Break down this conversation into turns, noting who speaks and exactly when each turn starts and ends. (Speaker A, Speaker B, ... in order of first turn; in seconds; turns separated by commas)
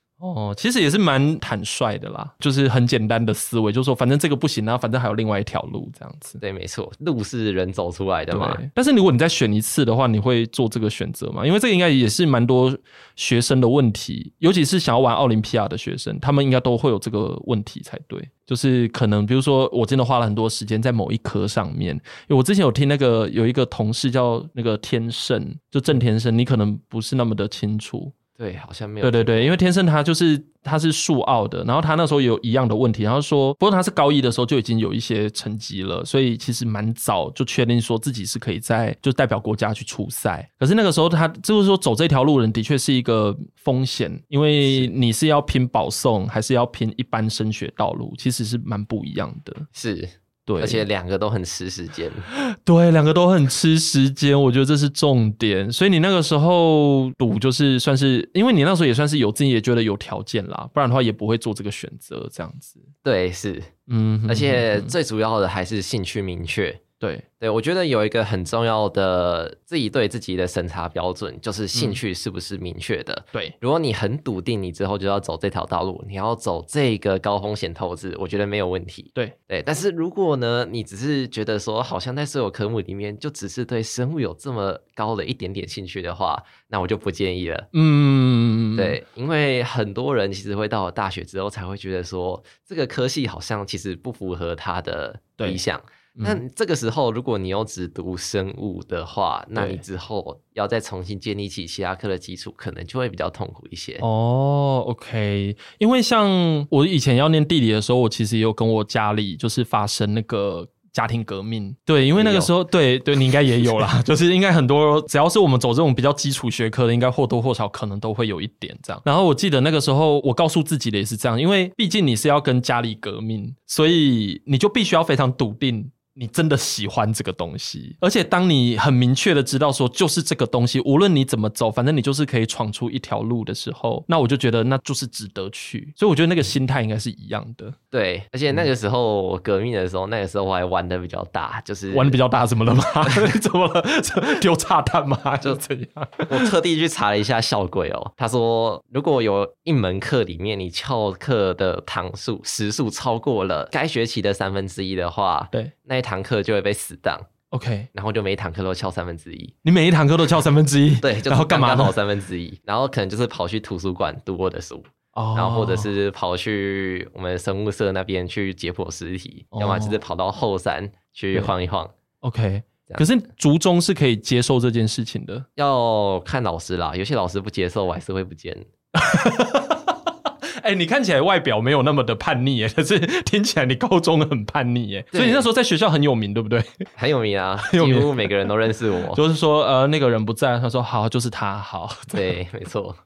Speaker A: 0.2-6.4, Speaker B: 6.4-8.6, Speaker A: 8.3-28.1, Speaker B: 28.4-29.6, Speaker A: 29.0-49.7, Speaker B: 44.6-44.9, Speaker B: 49.7-52.3, Speaker A: 50.5-50.9, Speaker A: 52.3-62.9, Speaker B: 63.0-63.7, Speaker A: 63.9-64.9, Speaker B: 64.3-66.8, Speaker A: 67.0-67.2, Speaker B: 67.4-87.7, Speaker A: 71.7-72.0, Speaker A: 87.7-89.0, Speaker B: 88.8-104.0, Speaker A: 96.2-96.4, Speaker A: 99.6-99.8, Speaker A: 104.0-137.8, Speaker B: 112.2-112.5, Speaker B: 137.9-142.2, Speaker A: 141.9-146.5, Speaker B: 146.3-157.3, Speaker A: 157.5-157.9, Speaker B: 157.9-159.5, Speaker A: 159.6-161.9, Speaker B: 161.0-171.9, Speaker A: 165.2-165.9, Speaker A: 169.5-170.0, Speaker A: 172.2-175.5, Speaker B: 175.6-178.7, Speaker A: 178.9-186.9, Speaker B: 185.1-185.5, Speaker B: 187.0-189.2, Speaker A: 187.7-188.5, Speaker A: 189.1-192.3, Speaker B: 192.1-193.0